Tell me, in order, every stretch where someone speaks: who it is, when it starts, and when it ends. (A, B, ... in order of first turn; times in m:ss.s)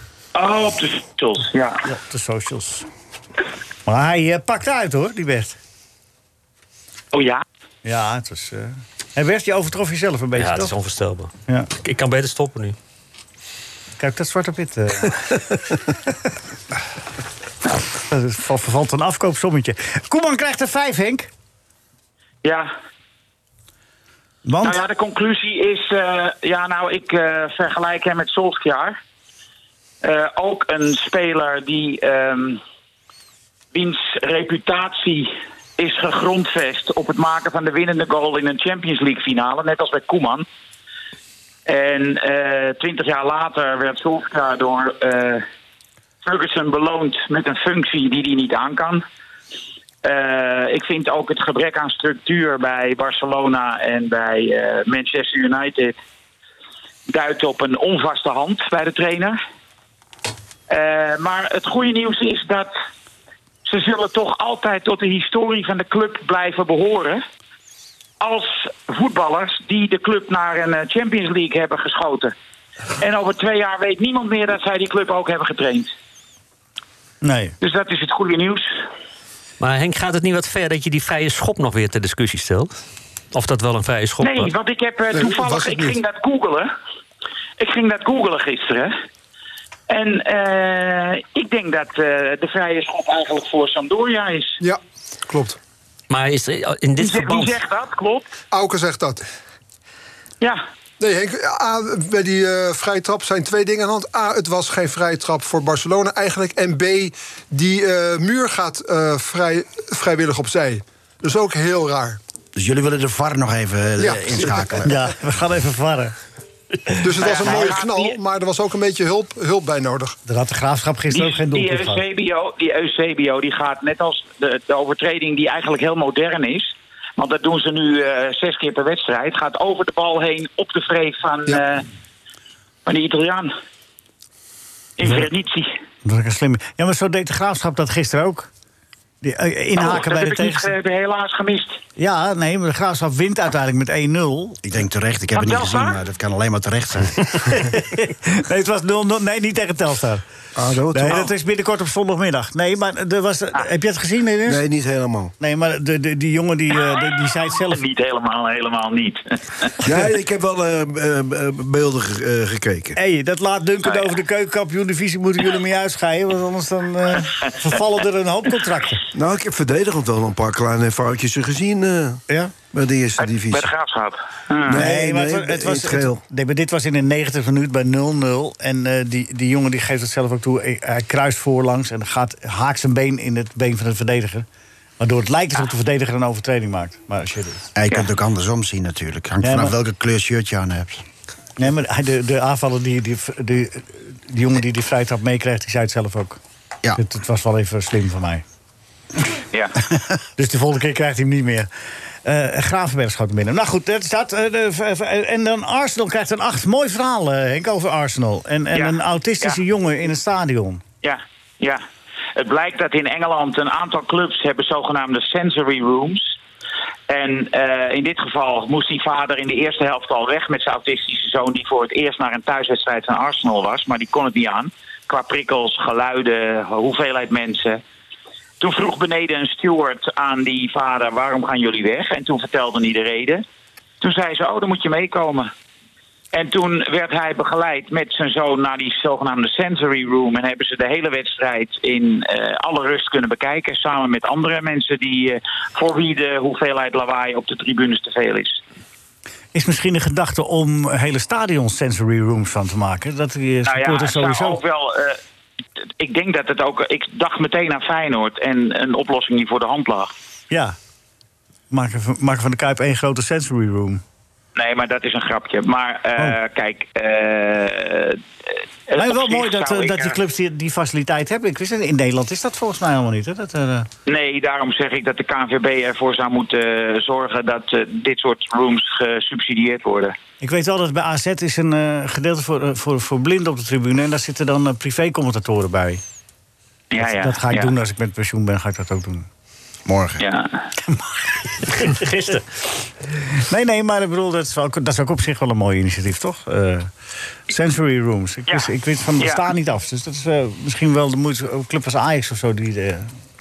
0:00.3-0:01.8 A
0:01.8-0:02.9 B
0:03.8-0:05.6 B
0:07.1-0:07.4 A
0:07.8-0:10.7 B
0:10.3-0:12.8 C
0:14.0-0:15.2 B
0:18.1-0:21.3 B
0:22.4-0:22.7 A
0:24.4-0:24.8 B
0:24.6-0:29.0 A
0:30.0-0:32.6 A
0:33.7-0:40.4 A
0:41.6-0:45.4 A
0:46.2-0:49.0 A
0:50.0-0:56.0 A
0:57.1-0:59.4 A
1:00.7-1:02.7 A
1:03.6-1:07.2 A
1:08.2-1:12.3 A
1:13.0-1:15.9 A
1:17.2-1:17.5 B
1:17.6-1:18.7 A
1:19.6-1:22.7 C
1:23.3-1:24.5 C
1:24.2-1:26.7 A
1:25.1-1:26.0 D
1:27.6-1:28.9 A
1:29.9-1:34.6 A
1:34.6-1:35.6 D
1:36.1-1:37.6 C
1:37.0-1:38.3 A
1:38.5-1:39.2 D
1:41.0-1:52.2 D
1:52.5-1:55.0 E
1:54.0-1:54.8 D
1:54.8-1:56.1 B
1:57.0-2:00.2 D
1:57.2-1:58.1 A
2:00.2-2:02.0 B
2:01.1-2:11.8 A
2:12.8-2:13.5 A
2:15.0-2:15.7 A
2:16.0-2:18.5 B
2:19.2-2:20.7 B
2:19.8-2:21.8 A
2:22.0-2:24.6 B
2:24.6-2:27.5 E
2:25.3-2:26.0 A
2:27.5-2:30.2 B
2:30.6-2:31.3 F
2:30.9-2:34.6 B
2:34.4-2:35.3 F
2:35.4-2:37.8 B
2:37.6-2:39.7 A
2:39.8-2:43.0 F
2:43.0-2:49.0 B
2:49.1-2:52.2 F
2:52.7-2:53.7 F
2:53.2-2:54.8 A
2:54.7-2:56.2 F
2:54.7-3:04.4 B
3:05.0-3:07.7 B
3:07.7-3:11.0 E
3:09.4-3:09.7 B
3:11.6-3:16.4 B
3:17.0-3:18.4 B
3:20.4-3:21.7 B
3:22.2-3:30.8 B
3:28.7-3:29.6 A
3:31.0-3:31.8 A
3:32.4-3:36.4 A
3:37.1-3:47.8 A
3:48.6-3:53.4 A
3:54.0-3:55.5 A
3:56.3-4:08.6 A
4:09.5-4:14.6 B
4:13.6-4:15.2 A
4:16.0-4:20.1 A
4:20.5-4:20.8 B
4:21.7-4:24.0 B
4:24.6-4:28.2 A
4:28.9-4:30.2 A
4:29.0-4:33.9 B
4:34.1-4:40.2 A
4:40.4-4:46.0 B
4:46.9-4:47.7 A
4:47.0-4:49.3 B
4:49.8-4:50.2 E
4:50.2-4:50.5 A
4:50.8-4:52.4 B
4:53.4-4:56.9 B
4:57.5-5:03.1 B
4:58.5-4:59.4 A